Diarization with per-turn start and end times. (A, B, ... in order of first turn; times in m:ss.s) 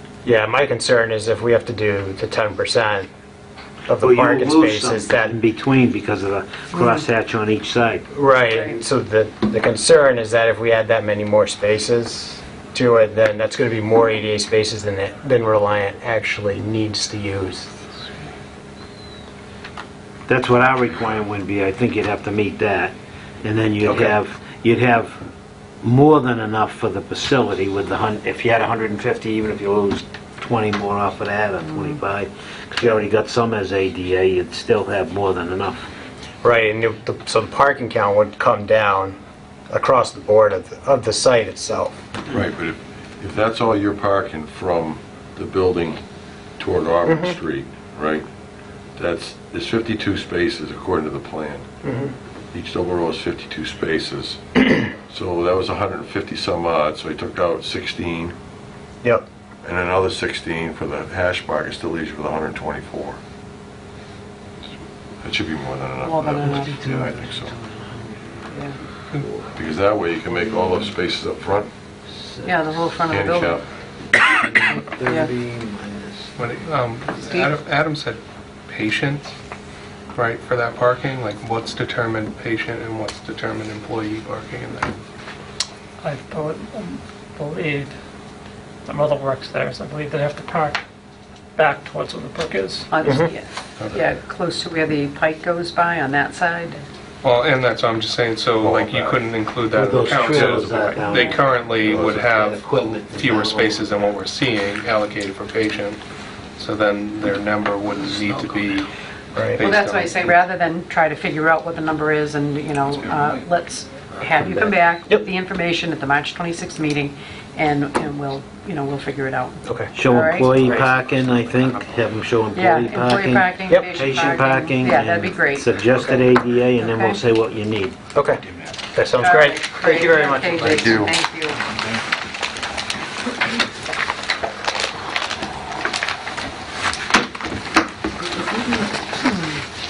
0:00.2-0:03.1 A
0:03.9-0:05.4 A
0:04.0-0:08.1 B
0:06.7-0:07.0 C
0:08.1-0:17.7 A
0:08.5-0:08.8 C
0:20.3-0:25.2 B
0:23.8-0:24.2 A
0:25.8-0:35.9 B
0:36.4-0:39.2 A
0:39.7-0:41.9 A
0:42.3-0:46.0 D
0:46.6-0:48.3 D
0:47.1-0:47.4 A
0:49.0-0:51.7 D
0:51.8-0:52.1 A
0:52.5-0:54.5 D
0:55.0-0:58.4 D
0:59.6-1:03.2 D
1:05.2-1:07.6 D
1:06.0-1:07.0 C
1:06.5-1:08.4 B
1:08.5-1:08.8 C
1:09.5-1:11.7 D
1:12.1-1:12.8 B
1:12.4-1:13.6 C
1:13.1-1:13.6 D
1:14.3-1:16.4 B
1:15.0-1:15.3 C
1:16.4-1:19.3 E
1:17.2-1:17.5 C
1:20.1-1:25.0 E
1:26.0-1:27.9 F
1:28.9-1:30.8 F
1:31.6-1:32.9 F
1:32.9-1:36.8 C
1:37.2-1:46.0 E
1:38.6-1:39.2 D
1:39.7-1:43.9 B
1:46.6-1:48.9 E
1:49.3-1:49.6 A
1:49.5-1:50.3 E
1:49.6-2:00.7 C
1:54.4-1:54.7 B
1:59.6-1:59.9 A
2:00.0-2:08.0 B
2:00.6-2:00.9 A
2:02.5-2:05.9 C
2:03.7-2:04.0 A
2:06.8-2:07.2 C
2:08.1-2:10.9 A
2:09.2-2:11.6 C
2:10.7-2:11.1 D
2:18.4-2:19.6 C